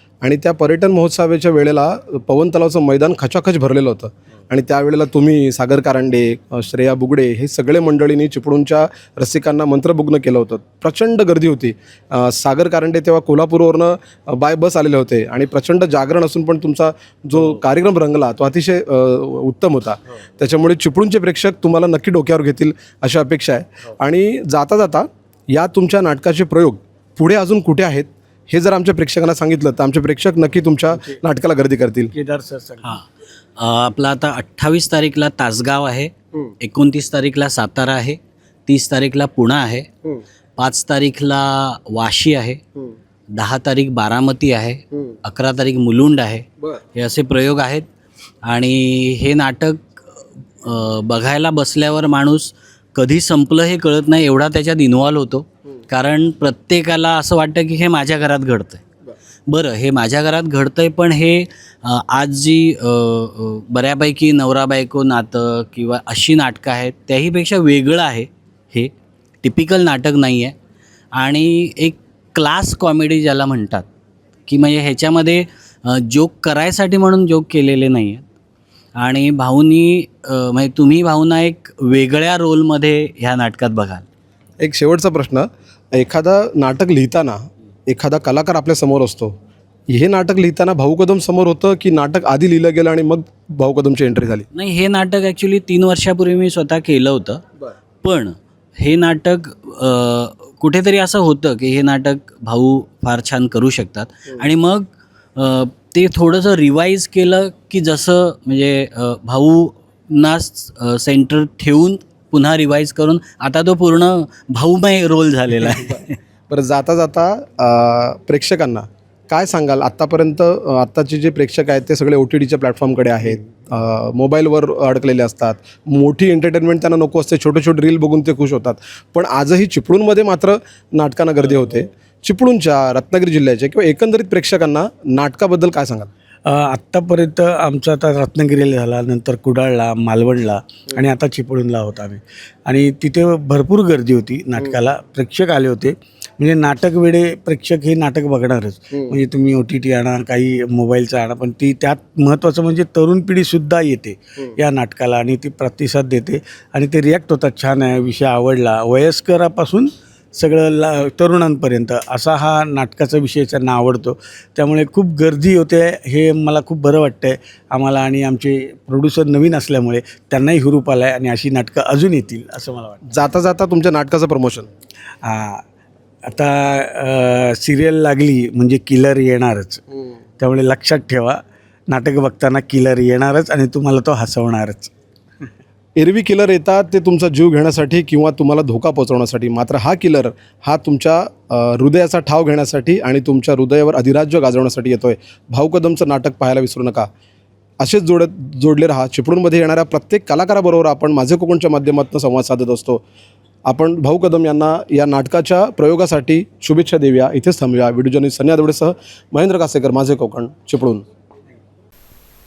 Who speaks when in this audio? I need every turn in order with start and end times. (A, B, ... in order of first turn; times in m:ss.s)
0:00.2-0:32.1 A
0:32.1-0:32.8 B
0:33.6-0:39.9 C
0:40.6-0:42.6 C
0:43.3-0:47.9 C
0:48.4-0:58.8 C
0:59.5-1:08.9 C
1:09.4-1:10.6 C
1:11.2-1:13.9 C
1:14.5-1:18.2 C
1:19.0-1:24.0 C
1:24.6-1:29.3 A
1:29.9-1:34.5 A
1:34.5-1:37.4 C
1:38.0-1:56.1 C
1:56.5-2:16.1 A
2:16.5-2:53.0 B
2:53.1-2:54.7 A
2:55.2-2:55.6 B
2:56.3-2:59.8 B
3:00.4-3:04.9 B
3:06.0-3:17.1 A
3:17.8-3:23.0 A
3:23.7-3:31.0 A